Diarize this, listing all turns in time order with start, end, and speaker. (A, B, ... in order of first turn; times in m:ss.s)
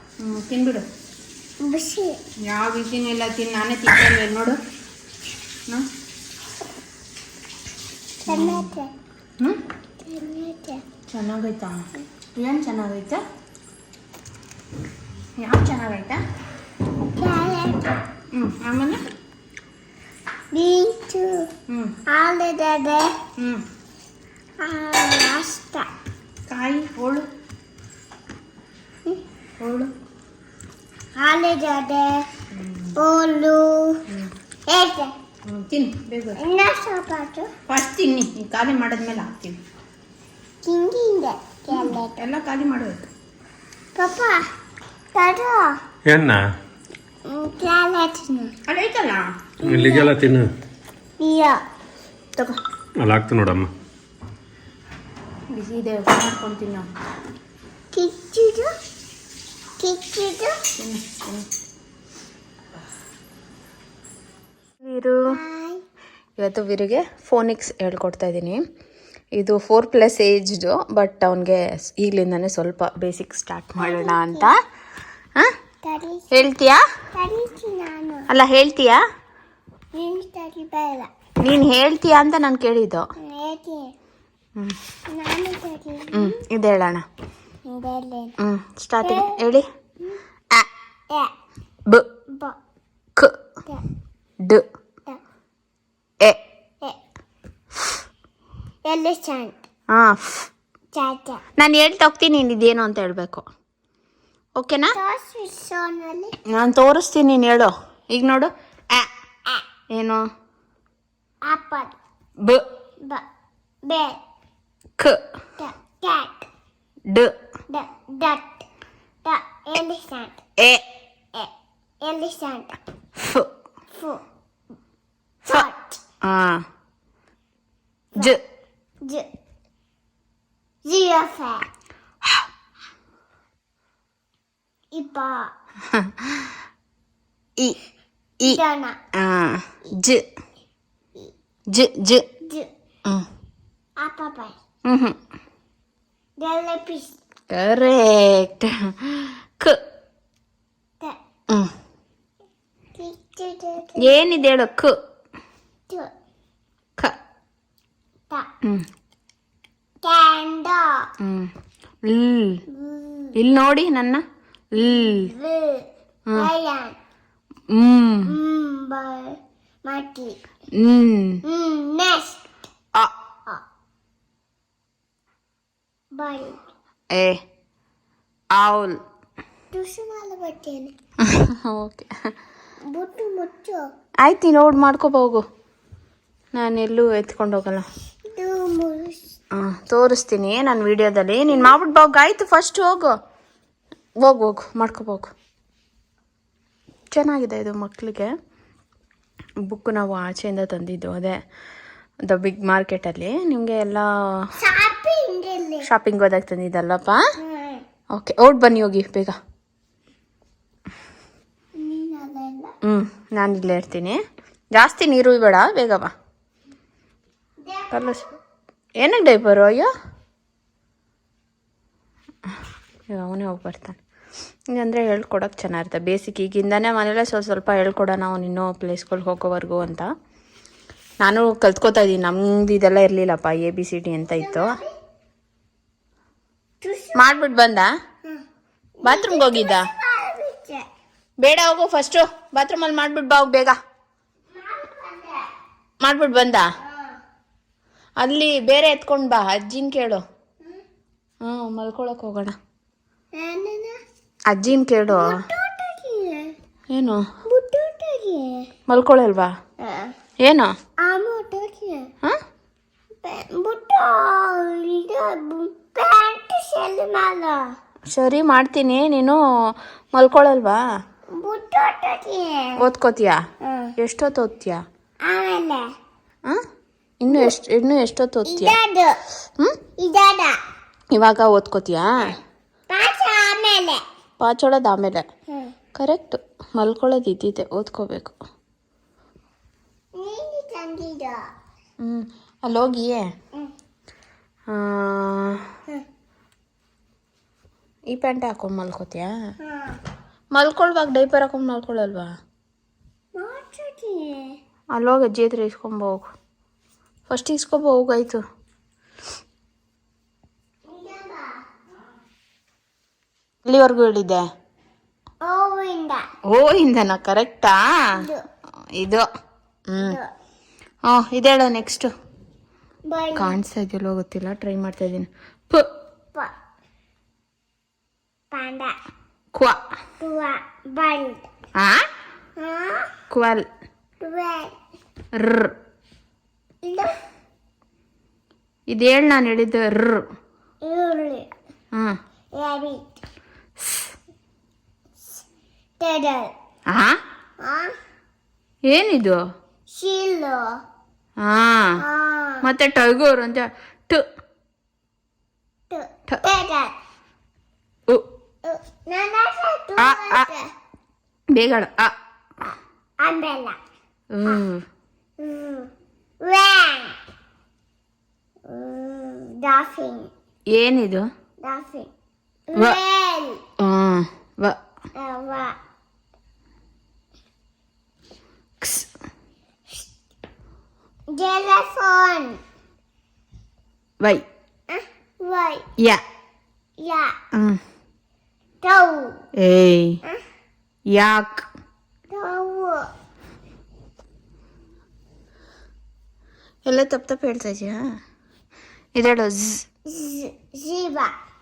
0:00.2-0:00.9 A
0:01.6-0:02.2 B
0:02.5-0:04.6 A
0:08.2-0:08.7 A
0:08.3-0:08.9 B
0:10.0-0:10.8 B
0:11.1-0:13.2 A
0:15.4-0:16.2 A
0:17.2-0:18.0 B
0:18.3-0:19.0 A
0:20.5-0:21.5 B
0:21.7-0:22.0 A
0:22.1-0:23.2 B
0:23.4-0:23.6 A
0:24.6-0:25.9 B
0:26.5-0:27.3 A
0:29.6-0:29.9 A
0:31.2-0:32.2 B
0:32.5-0:33.0 A
0:33.0-0:34.0 B
0:34.7-0:35.1 B
0:35.5-0:36.4 A
0:36.4-0:37.5 B
0:37.7-0:39.6 A
0:40.6-0:42.2 B
0:41.7-0:43.1 A
0:44.0-0:44.5 B
0:45.1-0:45.8 B
0:46.1-0:46.4 C
0:47.2-0:48.5 B
0:48.7-0:49.3 A
0:49.6-0:50.1 B
0:49.6-0:50.5 C
0:51.2-0:51.6 B
0:53.0-0:53.7 C
0:55.5-0:56.9 A
0:57.9-0:58.7 B
0:59.8-1:00.6 B
1:00.8-1:01.5 A
1:04.8-1:05.3 A
1:05.2-1:05.8 B
1:06.4-1:08.6 A
1:09.4-1:14.6 A
1:13.8-1:14.5 B
1:15.8-1:16.4 B
1:16.3-1:16.8 A
1:17.1-1:18.3 B
1:18.3-1:19.0 A
1:19.9-1:21.1 B
1:21.4-1:23.1 A
1:23.2-1:23.9 B
1:25.1-1:26.4 B
1:26.1-1:27.0 A
1:27.7-1:28.4 B
1:28.4-1:29.7 A
1:29.0-1:29.4 B
1:32.3-1:32.6 B
1:38.8-1:39.6 B
1:39.9-1:40.5 A
1:40.9-1:41.4 B
1:41.6-1:43.5 A
1:44.6-1:45.0 A
1:44.9-1:46.4 B
1:46.5-1:49.1 A
1:49.9-1:50.2 A
1:51.4-1:51.9 B
1:53.8-1:54.2 B
1:55.6-1:56.5 B
1:57.1-1:57.4 A
1:57.7-1:58.7 B
1:59.2-2:00.4 B
2:01.3-2:02.8 B
2:03.2-2:03.5 A
2:03.9-2:04.2 B
2:05.4-2:06.0 B
2:06.2-2:06.6 A
2:08.2-2:08.4 A
2:09.0-2:09.3 B
2:10.8-2:11.7 B
2:14.9-2:15.5 B
2:15.9-2:16.5 A
2:18.4-2:19.0 B
2:19.2-2:20.2 A
2:21.7-2:22.3 A
2:22.4-2:22.7 B
2:24.0-2:24.6 B
2:24.9-2:25.2 A
2:26.4-2:27.2 B
2:27.5-2:29.8 A
2:33.0-2:34.3 B
2:34.0-2:35.0 A
2:40.0-2:41.1 B
2:41.2-2:41.5 A
2:42.0-2:42.6 A
2:42.7-2:43.4 B
2:43.4-2:44.2 A
2:44.7-2:45.3 A
2:44.8-2:47.0 B
2:47.7-2:48.3 A
2:48.2-2:50.4 B
2:50.8-2:51.4 A
2:51.4-2:52.5 B
2:56.1-2:56.6 B
2:57.1-2:57.4 A
2:58.5-2:59.0 A
2:59.7-3:00.9 B
3:01.2-3:02.2 A
3:02.9-3:03.8 B
3:04.2-3:05.4 A
3:06.5-3:07.9 A
3:08.2-3:09.3 B
3:09.5-3:13.2 A
3:14.2-3:15.3 A
3:17.1-3:18.3 A
3:19.7-3:21.4 A
3:22.2-3:24.1 A
3:24.6-3:25.9 B
3:25.8-3:27.2 A
3:27.4-3:27.8 B
3:28.2-3:29.4 A
3:31.8-3:32.7 B
3:32.9-3:34.2 A
3:34.8-3:36.1 A
3:37.6-3:38.4 B
3:37.9-3:38.2 A
3:39.0-3:39.9 A
3:43.1-3:44.0 A
3:44.7-3:50.1 A
3:51.2-3:54.8 A
3:54.3-3:55.0 B
3:56.8-3:57.4 B
3:57.2-3:57.9 A
3:59.0-4:00.9 B
3:59.0-3:59.9 A
4:01.4-4:03.8 A
4:04.5-4:05.5 B
4:06.0-4:06.7 A
4:06.8-4:07.2 B
4:08.2-4:10.2 A
4:11.4-4:12.6 A
4:13.4-4:14.0 B
4:14.5-4:15.4 A
4:15.1-4:16.5 B
4:16.9-4:17.2 A
4:17.4-4:18.7 B
4:18.9-4:19.5 A
4:19.8-4:20.1 B
4:20.4-4:20.7 A
4:21.0-4:22.1 B
4:23.2-4:27.7 B
4:28.1-4:29.4 A
4:30.1-4:30.8 A
4:31.4-4:32.8 B
4:32.8-4:33.4 A
4:33.6-4:33.9 B
4:34.0-4:34.8 A
4:35.2-4:35.9 B
4:37.2-4:38.8 A
4:38.4-4:39.2 B
4:40.0-4:40.6 B
4:41.1-4:42.3 A
4:42.9-4:44.0 B
4:44.4-4:45.2 A
4:45.5-4:45.7 B
4:46.0-4:48.4 A
4:50.2-4:51.4 B
4:52.0-4:53.2 A
4:54.7-4:55.6 A
4:58.1-4:59.3 A
4:59.6-5:00.0 B
5:00.5-5:02.3 A
5:03.4-5:04.6 B
5:04.9-5:06.3 A
5:07.3-5:08.4 A
5:10.8-5:11.6 B
5:13.7-5:14.5 A
5:15.4-5:16.3 B
5:16.5-5:18.2 A
5:18.2-5:18.5 B
5:19.0-5:19.2 A
5:19.9-5:20.2 A
5:20.0-5:20.3 B
5:21.1-5:22.1 A
5:23.0-5:23.6 B
5:23.4-5:25.9 A
5:28.5-5:29.0 B
5:30.2-5:31.5 B
5:31.8-5:32.0 A
5:32.6-5:33.1 B
5:33.3-5:33.7 A
5:34.2-5:34.8 B
5:35.4-5:35.7 A
5:36.8-5:37.2 B
5:38.9-5:40.2 A
5:40.8-5:41.5 B
5:42.5-5:43.2 B
5:46.0-5:46.5 B
5:46.9-5:47.2 A
5:47.6-5:48.0 B
5:48.9-5:49.4 A
5:49.9-5:50.7 B
5:51.4-5:52.0 A
5:52.0-5:52.6 B
5:52.6-5:54.2 A
5:55.9-5:56.9 B
5:58.6-6:00.7 B
6:00.0-6:00.5 A
6:01.5-6:02.1 A
6:03.2-6:03.8 B
6:04.3-6:04.9 A
6:05.4-6:07.2 B
6:08.7-6:10.3 B
6:10.7-6:11.2 A
6:11.6-6:12.1 B
6:12.7-6:13.6 B
6:13.8-6:14.8 A
6:15.2-6:15.8 B
6:18.8-6:19.1 A
6:21.3-6:22.6 B
6:24.2-6:24.4 A
6:24.9-6:25.9 B
6:27.0-6:27.4 B
6:27.5-6:27.8 A
6:28.8-6:29.4 B
6:29.6-6:30.2 A
6:31.1-6:31.7 A
6:32.3-6:33.1 B
6:36.9-6:38.0 A
6:39.2-6:39.9 A
6:40.0-6:41.4 B